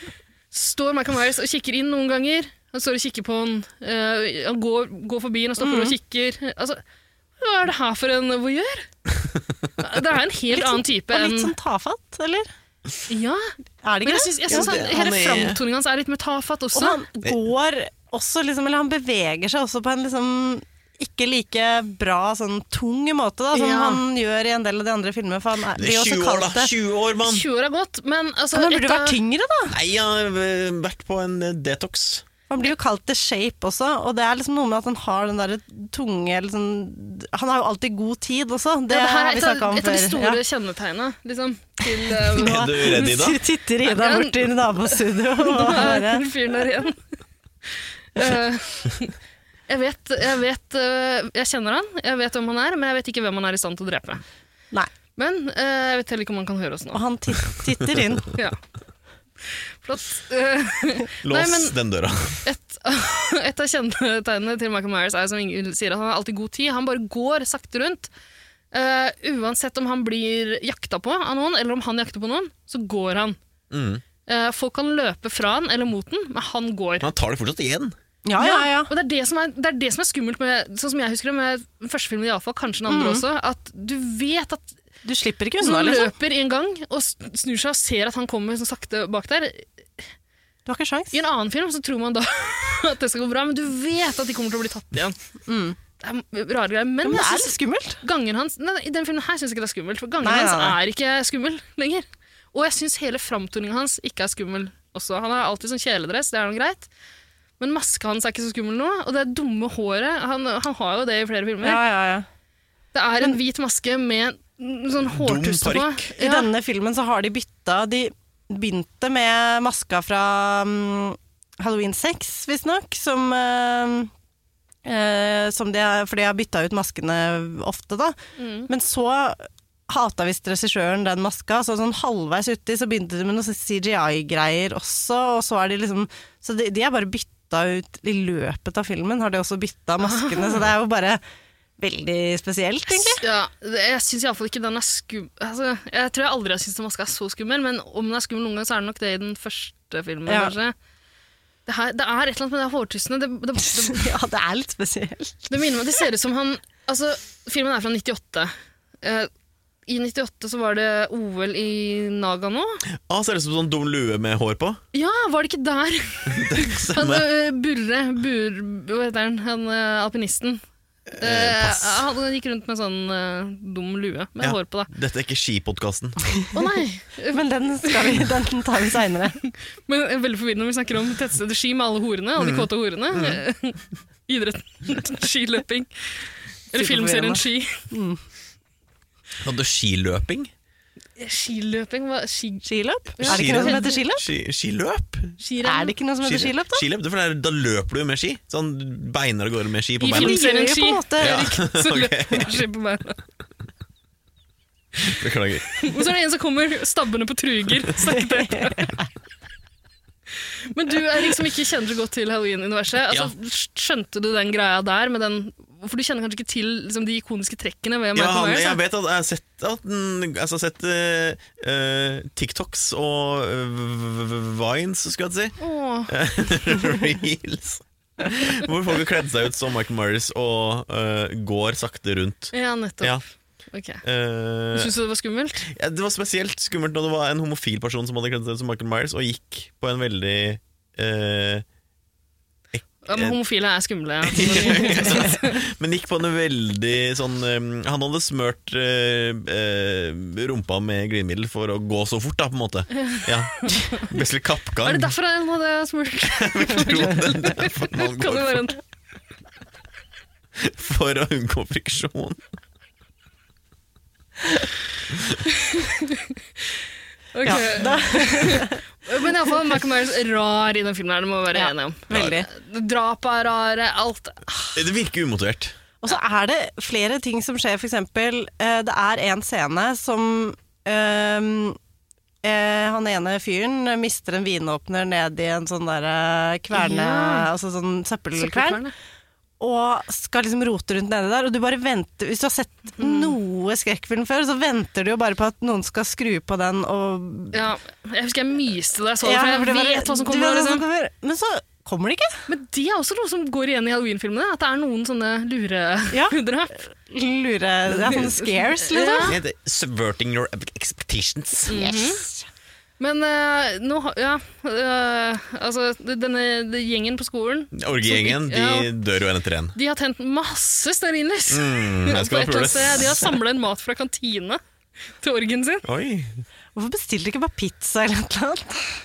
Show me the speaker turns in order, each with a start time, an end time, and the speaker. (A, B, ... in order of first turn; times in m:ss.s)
0:00.5-0:06.8 A
0:05.6-0:06.0 B
0:07.4-0:08.9 A
0:09.8-0:11.6 A
0:10.5-0:12.5 B
0:13.1-0:13.5 A
0:13.8-0:14.8 B
0:14.0-0:17.0 A
0:14.5-0:15.6 C
0:16.7-0:26.7 B
0:23.5-0:24.0 A
0:25.8-0:27.4 C
0:27.2-0:29.2 A
0:28.5-0:29.8 B
0:29.7-0:32.2 C
0:32.5-0:40.4 B
0:38.9-0:42.8 A
0:42.1-0:46.3 B
0:42.4-0:43.4 C
0:43.8-0:47.0 A
0:48.2-0:49.1 A
0:49.7-0:54.2 A
0:55.2-0:57.0 A
0:56.9-0:58.3 B
0:58.3-0:58.6 A
0:59.5-1:01.8 A
1:01.2-1:02.4 C
1:02.4-1:08.1 A
1:08.7-1:13.4 A
1:13.7-1:14.0 C
1:14.3-1:17.1 A
1:17.0-1:17.9 C
1:18.3-1:18.9 B
1:18.4-1:24.7 A
1:22.9-1:23.2 B
1:25.0-1:26.1 B
1:25.6-1:30.0 A
1:30.7-1:31.2 B
1:31.1-1:35.2 A
1:35.5-1:35.8 B
1:36.0-1:46.9 A
1:37.0-1:38.0 B
1:40.2-1:40.8 B
1:47.6-1:51.8 A
1:51.6-1:52.3 B
1:52.9-1:56.5 A
1:55.1-1:56.0 C
1:56.1-2:04.1 B
2:04.8-2:21.2 B
2:08.4-2:08.7 A
2:20.0-2:20.6 A
2:21.8-2:23.2 B
2:23.2-2:30.8 A
2:30.3-2:30.6 B
2:31.7-2:34.1 A
2:33.6-2:35.5 B
2:35.5-2:39.3 A
2:39.9-2:42.8 A
2:42.9-2:44.8 C
2:44.9-2:50.6 A
2:46.3-2:47.3 C
2:51.1-2:52.1 C
2:51.2-2:54.9 A
2:54.4-2:56.4 C
2:56.5-2:58.2 A
2:57.3-2:59.4 B
2:59.4-3:07.9 A
3:02.4-3:03.4 C
3:06.7-3:08.2 B
3:09.4-3:10.5 C
3:11.2-3:13.9 A
3:12.6-3:14.2 B
3:13.2-3:15.4 C
3:15.4-3:15.9 A
3:15.6-3:16.8 B
3:16.2-3:20.4 C
3:20.0-3:23.2 A
3:20.1-3:21.5 B
3:21.2-3:22.6 C
3:25.1-3:25.9 C
3:25.8-3:29.0 A
3:28.2-3:29.0 B
3:30.7-3:38.8 A
3:38.2-3:53.2 C
3:45.6-3:46.1 A
3:52.5-3:53.2 A
3:53.7-3:54.0 A
3:54.0-3:54.9 C
3:54.7-3:55.7 A
3:55.7-4:01.6 C
4:02.7-4:03.4 C
4:03.1-4:05.6 A
4:04.2-4:15.1 C
4:13.0-4:14.2 A
4:14.8-4:18.8 A
4:16.2-4:18.7 C
4:20.6-4:22.4 C
4:25.5-4:26.3 A
4:27.3-4:34.8 A
4:27.4-4:28.8 B
4:31.5-4:32.5 B
4:32.1-4:32.4 C
4:34.8-4:35.7 C
4:36.0-4:41.8 B
4:42.4-4:48.8 B
4:46.7-4:47.5 A
4:48.4-4:48.9 A
4:49.6-4:57.6 B
4:53.0-4:53.3 A
4:57.5-5:00.8 A
4:59.2-5:02.4 B
5:02.5-5:06.9 A
5:06.1-5:09.4 B
5:08.1-5:09.4 A
5:09.2-5:11.8 C
5:11.7-5:12.3 A
5:11.7-5:12.5 B
5:13.0-5:18.9 A
5:17.7-5:19.8 C
5:19.8-5:24.6 A
5:21.5-5:23.3 C
5:25.2-5:25.9 A
5:25.8-5:26.3 C
5:26.8-5:28.8 B